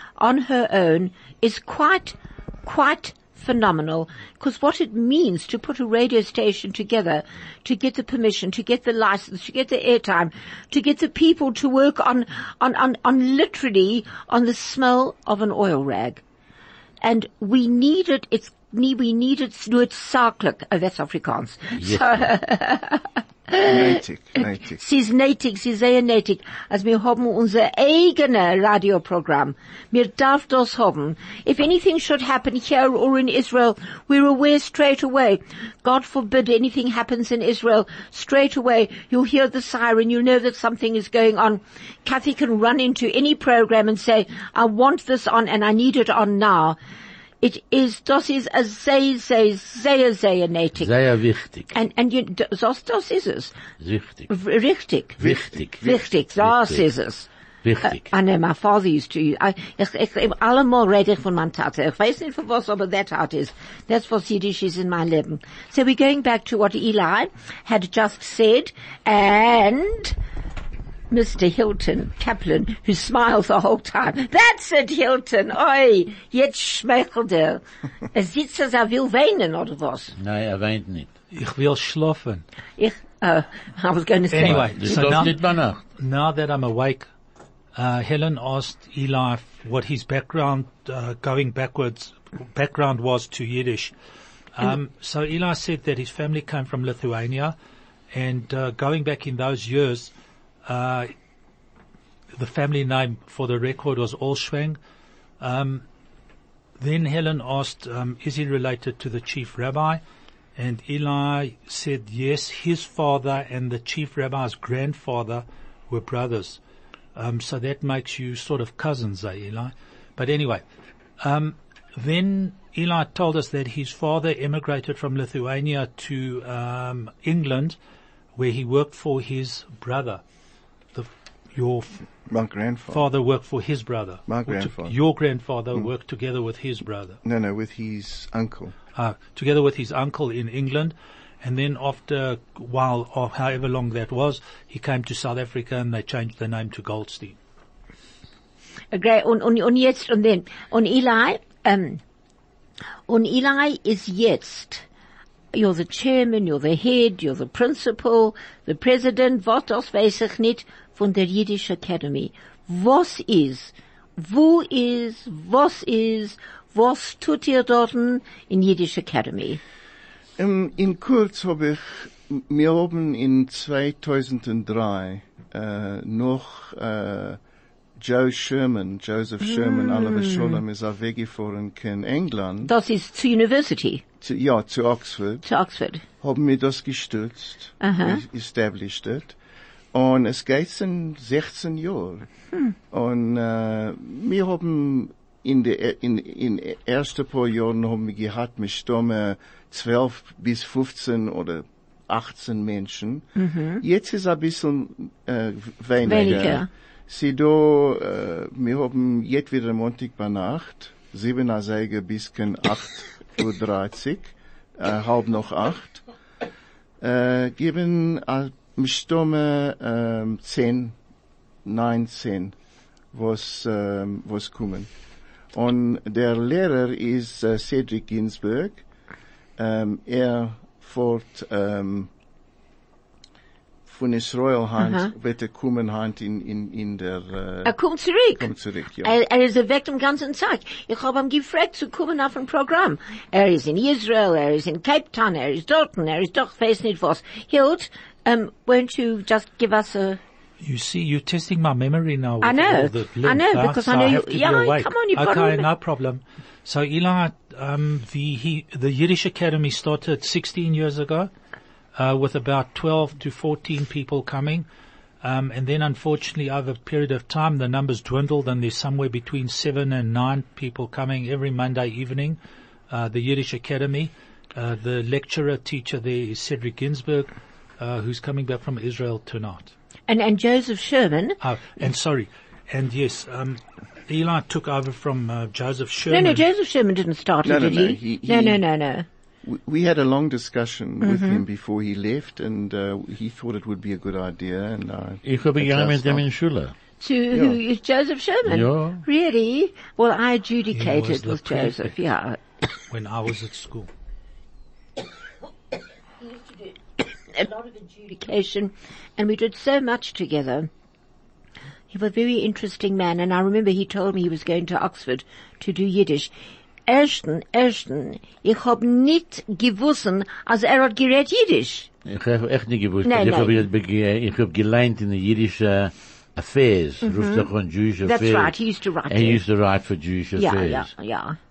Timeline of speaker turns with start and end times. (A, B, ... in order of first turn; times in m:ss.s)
0:00.2-0:16.2 A
0:17.0-0:46.8 A
0:21.8-0:22.3 B
0:23.6-0:24.8 C
0:47.4-0:50.9 A
0:50.8-0:51.7 B
0:51.7-0:53.5 A
0:53.8-0:54.3 B
0:54.3-0:55.2 A
0:55.2-0:56.8 B
0:55.2-0:56.1 C
0:55.8-0:57.3 A
0:57.6-0:58.1 B
0:57.8-1:10.2 A
1:11.1-1:20.1 A
1:20.2-1:21.1 B
1:21.3-1:22.4 D
1:22.8-1:25.1 A
1:24.3-1:27.1 D
1:24.4-1:25.8 B
1:27.7-1:33.9 D
1:34.5-1:37.5 D
1:38.1-1:40.1 D
1:40.6-1:41.1 D
1:42.3-1:44.8 D
1:45.4-1:45.8 D
1:46.8-1:50.0 D
1:50.6-1:56.6 D
1:57.1-2:00.6 D
2:01.2-2:07.8 D
2:08.4-2:10.2 D
2:10.9-2:12.0 D
2:12.3-2:13.1 C
2:12.9-2:17.2 D
2:14.3-2:14.9 C
2:17.2-2:18.7 C
2:18.9-2:27.4 D
2:28.9-2:32.0 A
2:33.1-2:34.8 A
2:35.5-2:49.6 A
2:50.4-2:57.4 C
2:58.0-3:02.7 C
2:59.4-3:00.6 A
3:02.6-3:04.0 A
3:04.2-3:05.4 C
3:05.4-3:06.0 A
3:06.2-3:09.4 C
3:07.8-3:08.2 A
3:09.9-3:12.2 C
3:12.9-3:23.3 C
3:23.4-3:23.8 A
3:23.8-3:36.0 C
3:26.0-3:26.7 A
3:37.0-3:41.0 C
3:41.6-3:42.6 C
3:43.1-3:44.9 C
3:45.5-3:48.8 C
3:49.6-3:52.1 C
3:53.8-3:57.8 C
3:54.8-3:55.1 A
3:57.6-3:58.5 A
3:58.4-3:59.1 C
3:59.0-4:10.2 A
4:10.6-4:21.3 D
4:12.4-4:15.7 A
4:21.9-4:24.6 D
4:25.2-4:32.4 D
4:32.9-4:39.7 D
4:40.1-4:41.4 A
4:41.4-4:46.4 D
4:46.1-4:49.0 A
4:47.4-4:48.6 C
4:49.4-4:56.2 C
4:51.0-4:51.4 A
4:55.2-4:56.7 B
4:57.0-5:02.4 A
4:57.3-4:57.6 C
4:58.4-4:59.0 B
5:00.7-5:01.9 D
5:02.9-5:03.9 D
5:06.2-5:10.7 A
5:11.9-5:16.3 A
5:16.9-5:21.9 A
5:22.0-5:28.5 B
5:23.0-5:23.6 A
5:27.0-5:27.5 A
5:28.0-5:29.4 A
5:29.1-5:30.9 B
5:30.4-5:31.4 A